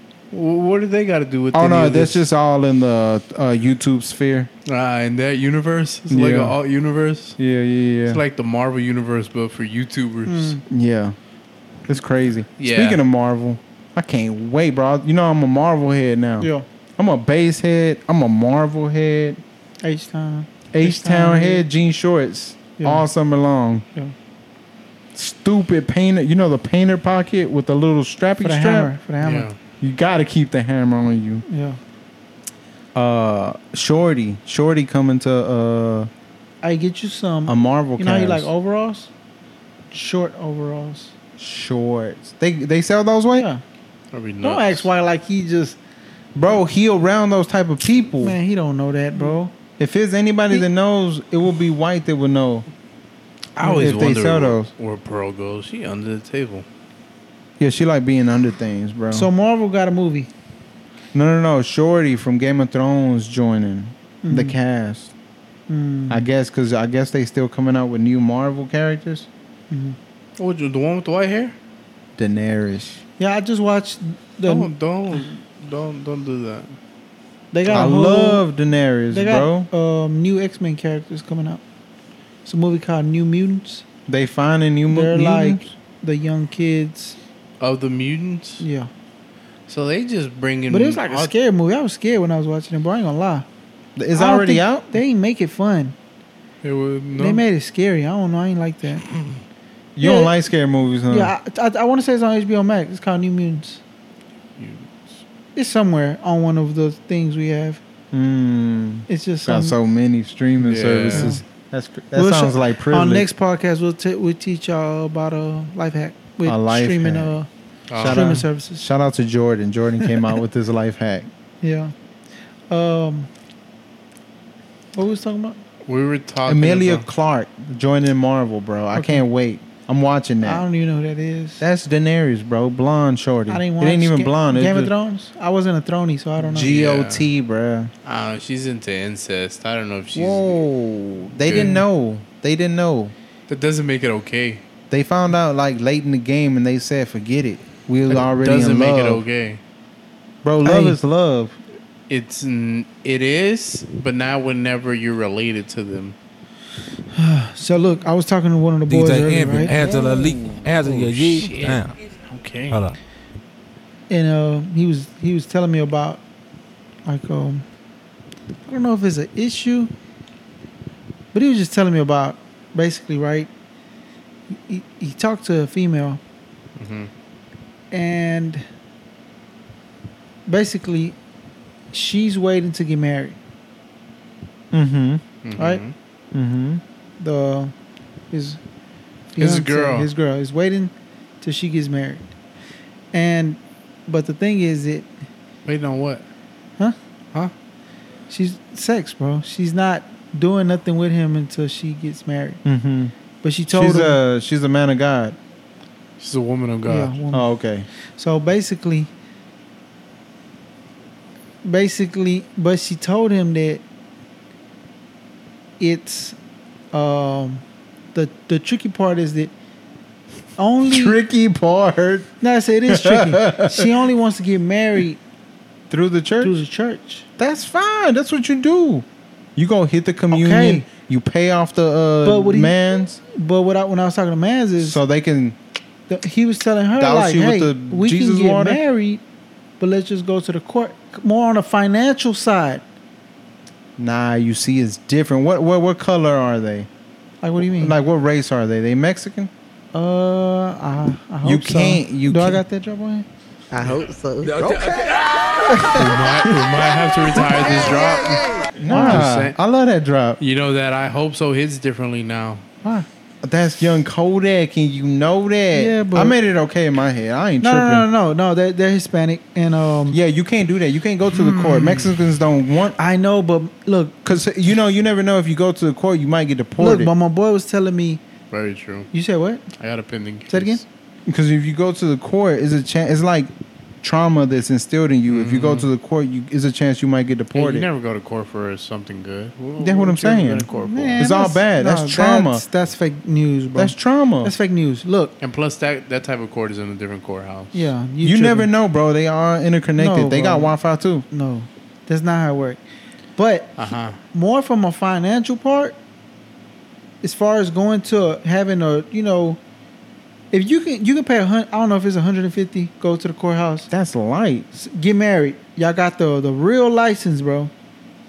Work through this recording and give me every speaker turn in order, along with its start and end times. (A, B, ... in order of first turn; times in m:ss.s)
0:00.3-0:02.2 A
0:01.5-0:04.5 B
0:04.6-0:07.4 A
0:06.1-0:06.6 B
0:07.4-0:08.2 B
0:08.1-0:10.6 A
0:10.2-0:10.6 C
0:10.7-0:11.2 B
0:11.9-0:19.4 B
0:12.6-0:13.0 A
0:16.4-0:16.6 C
0:19.8-0:21.6 C
0:20.7-0:23.8 B
0:22.8-0:23.0 C
0:25.1-0:28.9 B
0:28.4-0:29.5 C
0:29.2-0:29.5 A
0:29.8-0:31.4 B
0:31.5-0:31.8 C
0:32.9-0:36.1 B
0:36.6-0:39.1 C
0:37.5-0:38.5 B
0:39.9-0:41.1 C
0:41.4-0:43.5 B
0:43.4-0:43.6 C
0:44.1-0:44.9 A
0:44.4-0:45.8 C
0:46.3-0:48.4 B
0:48.2-0:49.5 C
0:49.8-0:52.7 B
0:53.6-0:56.6 A
0:53.6-0:53.9 C
0:53.6-0:54.7 B
0:57.6-0:59.3 B
0:59.1-1:00.3 C
1:01.1-1:05.1 B
1:04.2-1:04.6 C
1:05.7-1:06.3 C
1:06.1-1:09.3 B
1:09.7-1:10.0 C
1:10.4-1:11.5 A
1:12.2-1:13.0 B
1:13.2-1:14.7 C
1:14.4-1:16.7 A
1:17.5-1:18.4 C
1:17.7-1:19.7 B
1:19.1-1:21.6 C
1:22.4-1:23.8 C
1:24.1-1:25.7 B
1:24.9-1:27.2 C
1:27.6-1:28.6 A
1:28.6-1:28.9 C
1:29.7-1:31.3 A
1:30.7-1:33.5 C
1:34.0-1:34.9 B
1:34.1-1:35.9 C
1:36.6-1:37.4 A
1:37.2-1:39.1 C
1:40.0-1:41.3 B
1:40.0-1:40.3 C
1:41.1-1:43.8 C
1:44.6-1:45.2 A
1:45.6-1:47.8 C
1:48.1-1:53.3 B
1:49.1-1:49.8 C
1:50.6-1:51.3 A
1:51.1-1:51.4 C
1:52.1-1:57.5 C
1:56.4-1:57.4 B
1:57.9-1:58.4 A
1:57.9-2:01.3 B
1:58.0-1:58.8 C
2:01.6-2:01.9 C
2:02.7-2:03.3 C
2:05.0-2:05.6 C
2:05.8-2:07.0 A
2:06.4-2:10.6 B
2:08.9-2:09.2 C
2:10.4-2:11.6 C
2:11.6-2:14.9 B
2:13.5-2:16.7 C
2:16.4-2:17.3 A
2:16.6-2:17.9 B
2:18.0-2:20.6 A
2:20.1-2:23.1 B
2:21.4-2:21.8 A
2:21.5-2:21.8 C
2:23.5-2:24.6 A
2:24.9-2:29.2 B
2:28.1-2:29.6 A
2:30.4-2:31.6 B
2:30.6-2:31.0 C
2:32.1-2:36.1 A
2:37.1-2:39.8 C
2:38.9-2:41.9 D
2:39.6-2:41.3 B
2:40.7-2:42.8 A
2:42.7-2:43.0 D
2:44.1-2:46.2 C
2:47.0-2:47.6 C
2:48.7-2:49.9 C
2:51.3-2:53.5 C
2:54.5-2:56.2 C
2:56.8-2:57.1 A
2:57.9-2:58.6 C
3:00.4-3:01.2 C
3:01.9-3:03.4 C
3:04.7-3:05.2 B
3:05.4-3:05.9 A
3:05.6-3:05.8 C
3:06.3-3:06.8 B
3:07.2-3:07.7 C
3:08.3-3:08.6 C
3:09.3-3:12.3 C
3:09.4-3:10.1 A
3:13.1-3:15.1 C
3:15.6-3:16.2 A
3:18.3-3:22.6 C
3:22.6-3:23.1 B
3:23.4-3:24.2 C
3:23.7-3:25.4 B
3:26.2-3:27.1 A
3:26.9-3:27.5 C
3:27.3-3:27.9 B
3:28.2-3:29.1 C
3:31.6-3:33.8 C
3:35.8-3:36.4 C
3:36.9-3:37.6 C
3:38.1-3:39.5 C
3:40.6-3:41.2 C
3:40.8-3:42.3 B
3:42.4-3:45.2 C
3:42.9-3:43.9 B
3:45.9-3:46.6 B
3:46.4-3:47.3 C
3:47.4-3:53.2 B
3:50.3-3:50.8 C
3:52.2-3:52.8 C
3:53.3-3:55.0 C
3:54.8-3:55.6 B
3:56.1-3:59.2 C
3:56.9-3:58.8 B
3:59.8-4:02.8 C
4:04.0-4:06.9 B
4:07.4-4:08.0 C
4:07.6-4:09.5 B
4:09.9-4:13.2 C
4:11.4-4:12.6 B
4:13.8-4:16.7 B
4:14.4-4:15.1 D
4:15.9-4:19.6 A
4:18.8-4:20.4 B
4:18.9-4:19.2 C
4:20.4-4:22.6 A
4:23.4-4:28.1 B
4:25.7-4:26.4 C
4:27.6-4:30.2 C
4:30.1-4:33.0 B
4:31.4-4:32.0 C
4:33.0-4:34.3 C
4:34.2-4:37.1 B
4:36.8-4:38.2 C
4:38.5-4:39.1 A
4:39.1-4:39.6 C
4:39.8-4:40.8 A
4:40.5-4:40.8 C
4:41.3-4:43.5 B
4:44.0-4:47.9 B
4:45.3-4:45.9 A
4:47.5-4:51.2 A
4:49.8-4:52.6 B
4:50.7-4:55.3 C
4:53.7-4:54.5 B
4:55.4-4:57.9 A
4:57.7-4:58.7 C
4:58.2-5:01.2 B
5:00.0-5:00.7 C
5:01.3-5:02.8 C
5:03.4-5:03.8 C
5:03.8-5:04.2 A
5:04.3-5:06.0 C
5:07.2-5:09.6 C
5:10.5-5:13.9 C
5:13.9-5:14.7 B
5:14.7-5:17.7 C